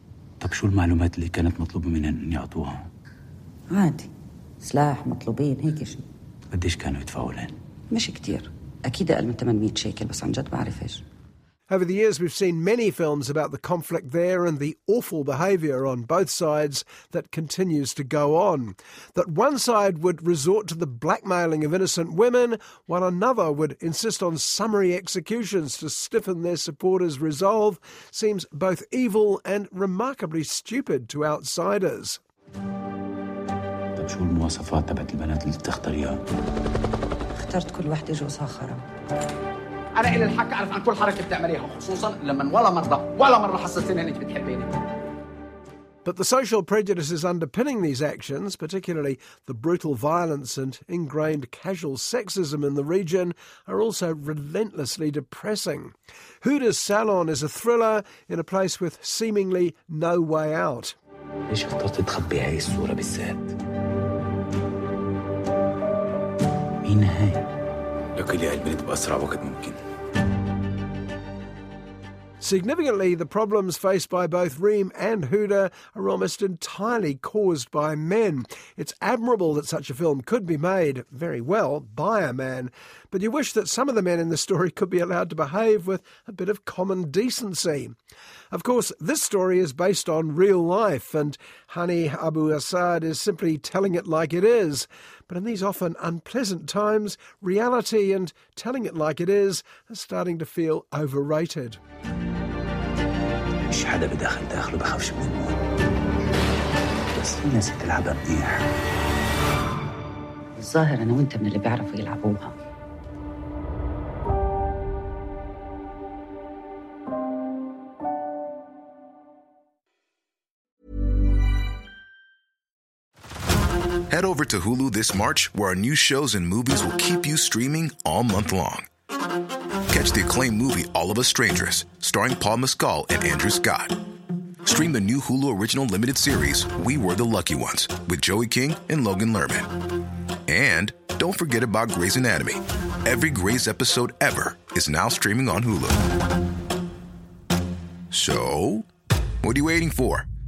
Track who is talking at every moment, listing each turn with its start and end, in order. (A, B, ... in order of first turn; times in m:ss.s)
0:00.4-0:02.8 A
0:03.7-0:04.1 B
0:04.6-0:06.0 B
0:06.5-0:07.6 A
0:07.9-0:11.0 B
0:11.7-0:32.2 C
0:34.0-0:36.2 A
0:37.4-0:38.8 B
0:39.9-0:44.7 D
0:46.0-1:01.0 C
1:01.5-1:03.5 A
1:06.8-1:07.5 A
1:08.2-1:09.8 A
1:12.4-1:27.9 C
1:28.5-1:41.8 C
1:43.7-1:45.6 A
1:47.1-1:48.7 A
1:50.6-1:52.5 B
2:04.1-2:08.9 E
2:09.9-2:14.0 E
2:14.6-2:19.7 E
2:20.5-2:26.0 E
2:28.1-2:28.8 E
2:29.4-2:30.3 E